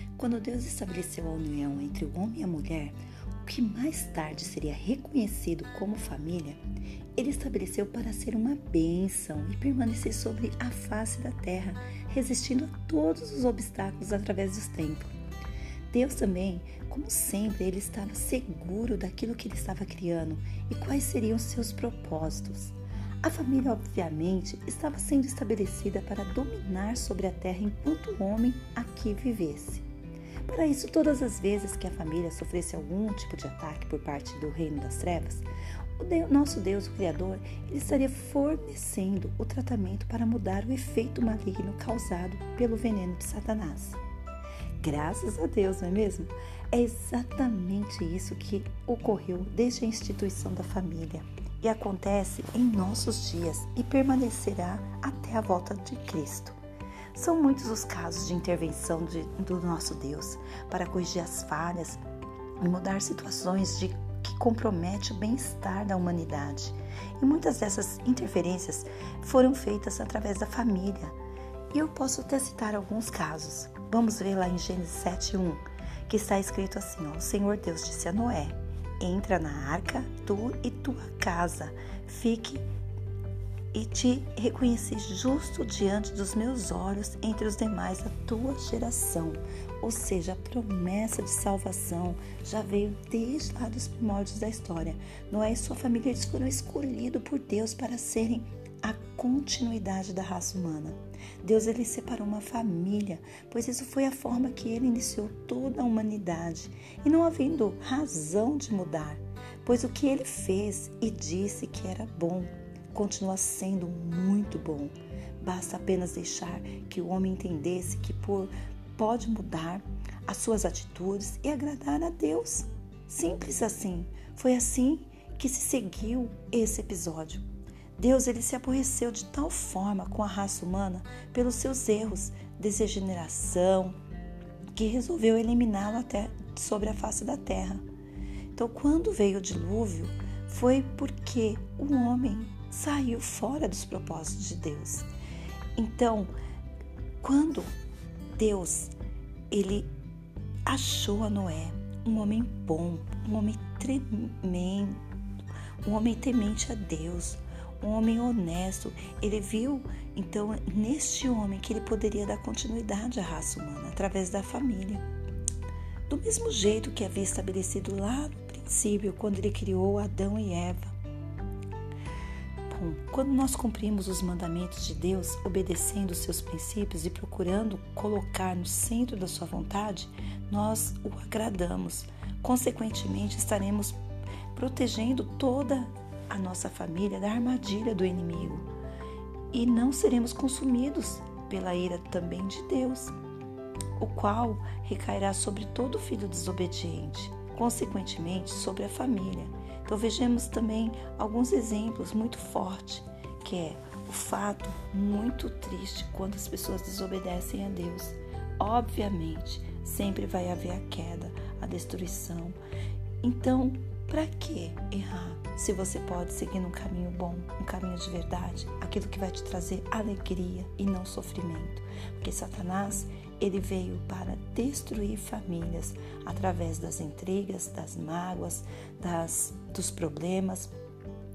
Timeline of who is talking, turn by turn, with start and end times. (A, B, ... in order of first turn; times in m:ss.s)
0:00.2-0:06.6 A
0:07.2-0:15.1 A
0:15.9-0:29.9 A
0:30.5-0:35.5 A
0:36.0-0:44.0 A
0:44.8-0:56.6 A
0:57.1-1:02.0 A
1:02.6-1:11.2 A
1:11.7-1:22.6 A
1:23.7-2:07.4 A
2:08.0-2:14.0 A
2:14.8-2:17.8 A
2:18.6-2:25.1 A
2:25.8-2:26.3 A
2:27.2-2:27.7 A
2:28.4-2:28.9 A
2:29.5-2:29.9 A
2:30.7-2:35.0 A
2:35.8-2:45.0 A
2:46.1-2:51.0 A
2:52.7-3:04.0 A
3:04.5-3:08.7 A
3:09.5-3:13.1 A
3:14.0-3:32.6 A
3:33.2-3:50.7 A